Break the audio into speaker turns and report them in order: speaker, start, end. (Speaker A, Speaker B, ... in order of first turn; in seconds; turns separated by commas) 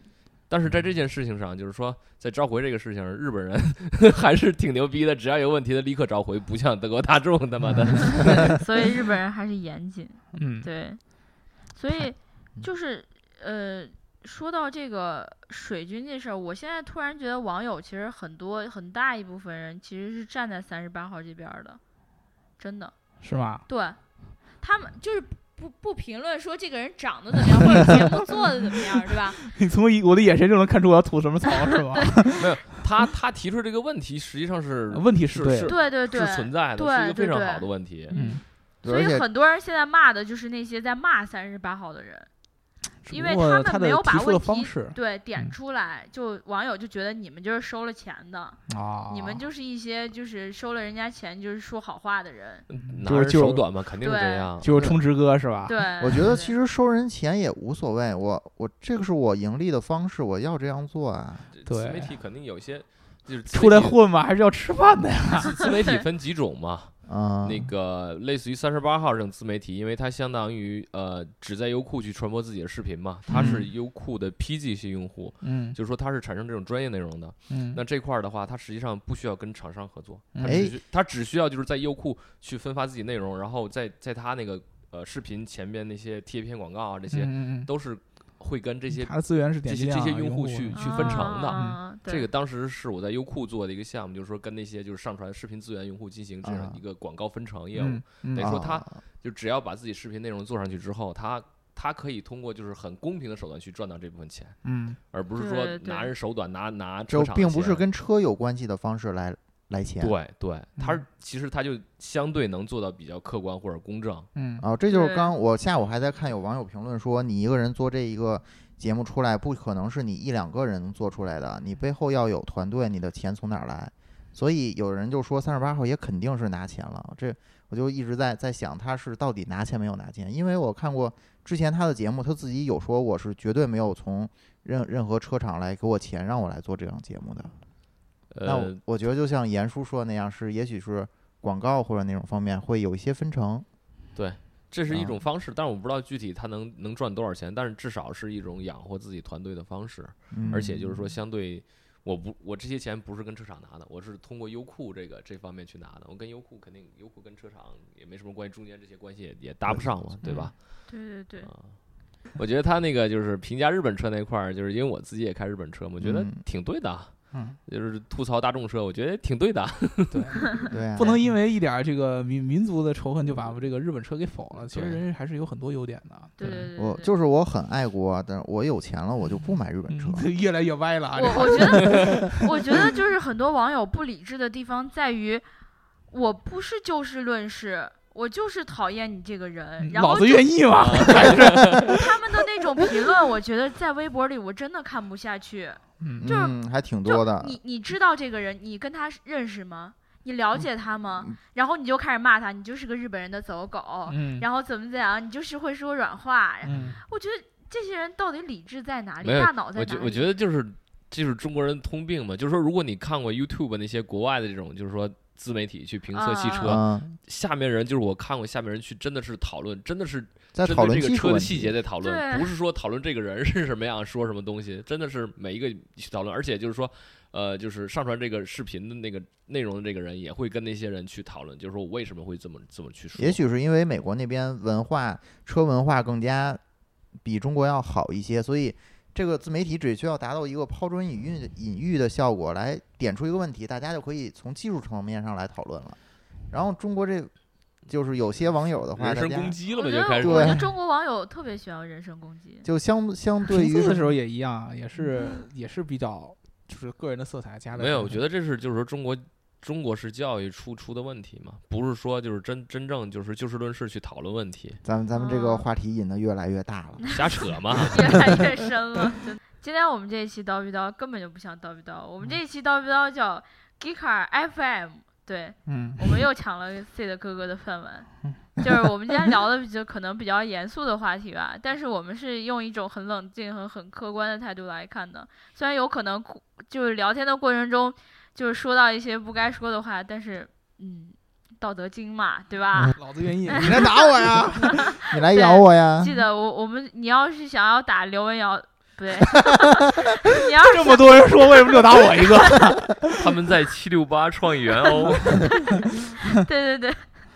Speaker A: 0.3-8.6, Speaker B: 7.7-8.6, Speaker C: 8.2-21.8, Speaker B: 10.3-10.7, Speaker C: 22.6-22.9, Speaker B: 23.2-23.6, Speaker C: 23.7-24.0, Speaker C: 24.6-29.4, Speaker B: 29.4-32.6, Speaker A: 32.4-38.1, Speaker B: 34.9-35.8, Speaker C: 35.7-42.3, Speaker B: 38.1-38.4, Speaker D: 38.8-39.2, Speaker B: 43.0-45.5, Speaker C: 43.1-52.6, Speaker B: 48.7-49.4, Speaker A: 52.7-54.7, Speaker B: 52.8-53.6, Speaker C: 54.0-54.5, Speaker B: 54.6-55.7, Speaker D: 54.7-55.0, Speaker C: 55.6-56.5, Speaker D: 56.0-61.5, Speaker A: 61.5-64.0, Speaker B: 61.6-62.1, Speaker B: 63.5-65.5, Speaker A: 65.4-104.6, Speaker D: 67.1-67.7, Speaker D: 73.3-73.6, Speaker B: 73.3-73.6, Speaker B: 75.4-75.8, Speaker B: 77.5-77.8, Speaker B: 80.3-80.6, Speaker D: 80.4-80.8, Speaker B: 87.1-87.7, Speaker B: 89.0-91.8, Speaker C: 90.7-92.3, Speaker D: 96.4-96.8, Speaker B: 97.8-98.5, Speaker D: 98.3-99.0, Speaker B: 104.6-105.0, Speaker A: 105.1-107.8, Speaker C: 105.4-106.1, Speaker D: 107.1-110.1, Speaker A: 110.0-114.3, Speaker B: 110.8-111.0, Speaker B: 114.3-114.6, Speaker D: 114.6-137.5, Speaker C: 114.9-115.3, Speaker A: 138.3-138.8, Speaker D: 138.4-143.7, Speaker A: 144.1-160.9, Speaker D: 144.9-145.2, Speaker D: 150.3-151.1, Speaker D: 159.7-160.5, Speaker B: 160.2-160.5, Speaker C: 160.9-161.5, Speaker A: 161.4-161.8, Speaker A: 162.3-170.7, Speaker D: 166.0-166.3, Speaker B: 167.3-167.6, Speaker B: 170.1-176.7, Speaker D: 170.7-171.2, Speaker A: 174.6-175.0, Speaker C: 176.4-177.1, Speaker D: 176.8-180.3, Speaker B: 179.9-182.4, Speaker C: 181.2-185.4, Speaker C: 186.1-196.5, Speaker B: 189.8-192.0, Speaker A: 190.7-192.0, Speaker B: 196.0-196.3, Speaker D: 196.2-197.6, Speaker C: 197.1-210.3, Speaker D: 200.6-201.3, Speaker B: 204.1-204.4, Speaker B: 206.6-207.0, Speaker A: 209.2-233.4, Speaker C: 216.1-216.8, Speaker D: 216.6-217.2, Speaker D: 220.5-221.8, Speaker C: 222.0-222.6, Speaker D: 233.2-236.6, Speaker D: 237.2-246.0, Speaker D: 246.5-247.3, Speaker D: 247.9-249.6, Speaker A: 248.9-250.6, Speaker C: 249.7-252.7, Speaker D: 250.2-250.6, Speaker D: 252.6-254.1, Speaker B: 253.5-258.2, Speaker A: 257.7-264.8, Speaker D: 264.8-267.2, Speaker C: 265.1-265.6, Speaker A: 267.1-268.1, Speaker C: 267.9-302.7, Speaker B: 275.6-276.0, Speaker B: 292.9-294.9, Speaker D: 295.0-296.1, Speaker B: 300.6-303.2, Speaker A: 303.1-305.6, Speaker C: 304.9-307.1